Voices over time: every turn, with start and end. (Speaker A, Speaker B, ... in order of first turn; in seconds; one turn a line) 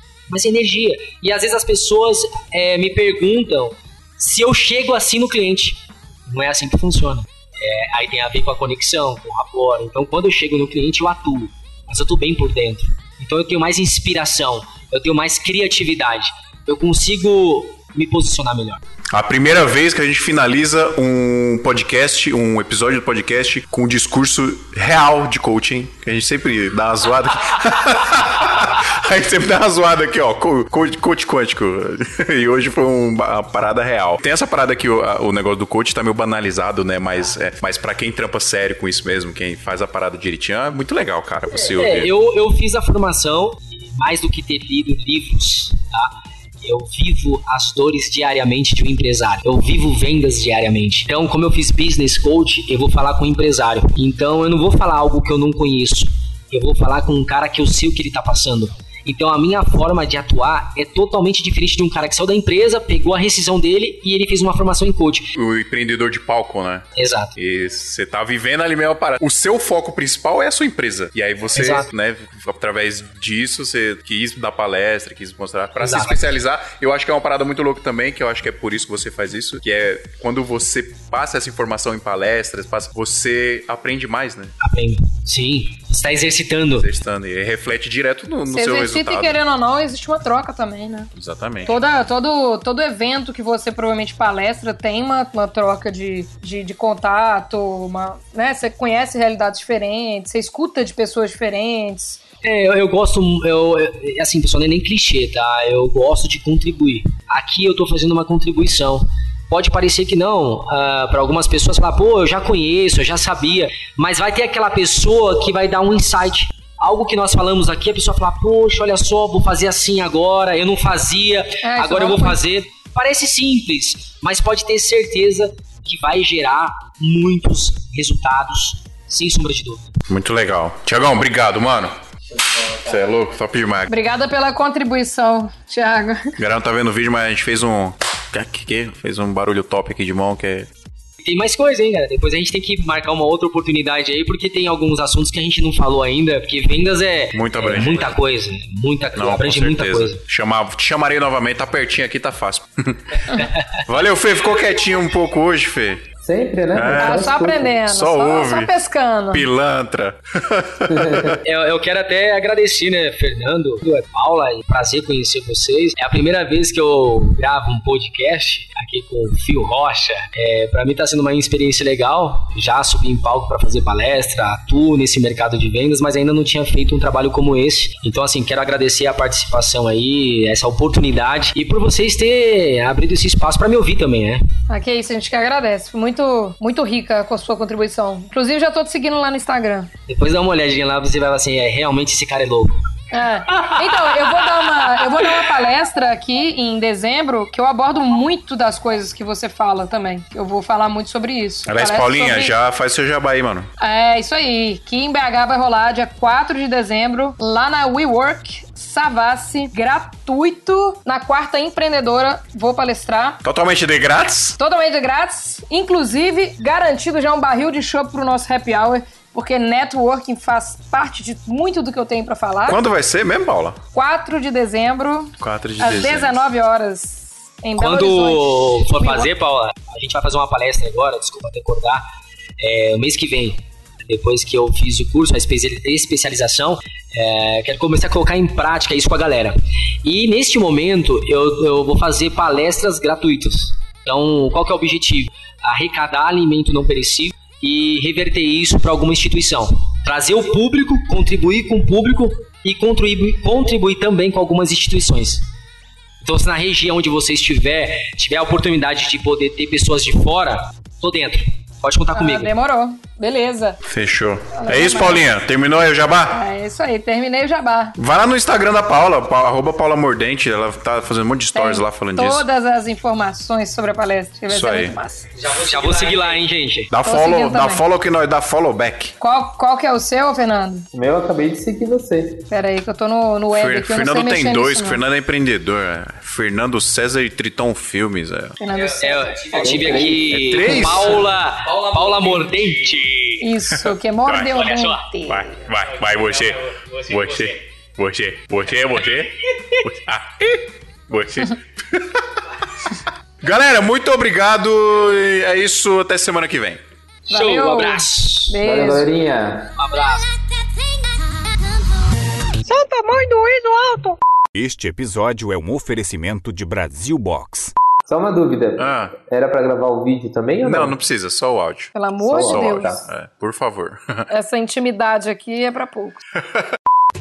Speaker A: 0.3-18.8
Speaker B: 19.1-42.1
Speaker A: 41.5-65.3
Speaker B: 65.3-84.5
Speaker A: 67.0-67.3
Speaker A: 71.5-71.9
Speaker A: 75.8-76.2
Speaker A: 84.6-86.8
Speaker B: 86.8-89.4
Speaker C: 88.5-91.1
Speaker B: 91.2-91.8
Speaker C: 91.7-102.2
Speaker A: 102.4-130.0
Speaker C: 121.6-122.4
Speaker B: 130.1-131.9
Speaker B: 132.6-133.9
Speaker C: 133.9-136.3
Speaker B: 136.4-140.7
Speaker A: 141.2-150.2
Speaker B: 147.3-148.2
Speaker B: 149.2-156.0
Speaker D: 156.2-157.7
Speaker B: 156.7-157.3
Speaker C: 156.9-159.4
Speaker B: 157.8-158.7
Speaker B: 159.3-161.4
Speaker D: 160.9-161.3
Speaker A: 161.4-184.4
Speaker C: 184.7-189.9
Speaker A: 190.1-192.7
Speaker C: 193.1-202.5
Speaker A: 193.5-195.6
Speaker B: 201.7-203.7
Speaker C: 203.8-213.4
Speaker B: 213.4-214.6
Speaker C: 214.6-222.8
Speaker B: 222.7-223.8
Speaker C: 223.9-229.3
Speaker B: 225.4-226.4
Speaker A: 227.8-232.0
Speaker A: 232.6-255.4
Speaker A: 256.2-262.5
Speaker C: 262.1-263.8
Speaker B: 263.8-266.4
Speaker C: 264.5-265.2
Speaker C: 266.3-267.9
Speaker B: 268.0-272.4
Speaker C: 271.5-275.3
Speaker B: 274.5-274.9
Speaker A: 275.4-276.9
Speaker B: 276.9-279.1
Speaker C: 277.0-277.8
Speaker C: 279.2-280.9
Speaker D: 280.9-282.4
Speaker C: 282.5-285.0
Speaker B: 283.5-288.6
Speaker C: 288.6-289.6
Speaker A: 288.7-293.5
Speaker D: 289.5-290.9
Speaker B: 290.3-291.3
Speaker C: 293.4-295.4
Speaker B: 293.7-294.6
Speaker A: 294.5-295.0
Speaker B: 295.2-302.2
Speaker A: 296.9-297.4
Speaker B: 302.8-306.8
Speaker C: 307.3-309.1
Speaker A: 307.3-308.6
Speaker D: 308.6-309.7
Speaker A: 309.8-310.2
Speaker C: 312.7-313.6
Speaker E: 314.5-317.7
Speaker D: 318.1-320.9
Speaker B: 318.8-319.1
Speaker B: 320.6-324.3
Speaker C: 321.9-323.0
Speaker D: 322.2-323.0
Speaker C: 324.3-326.2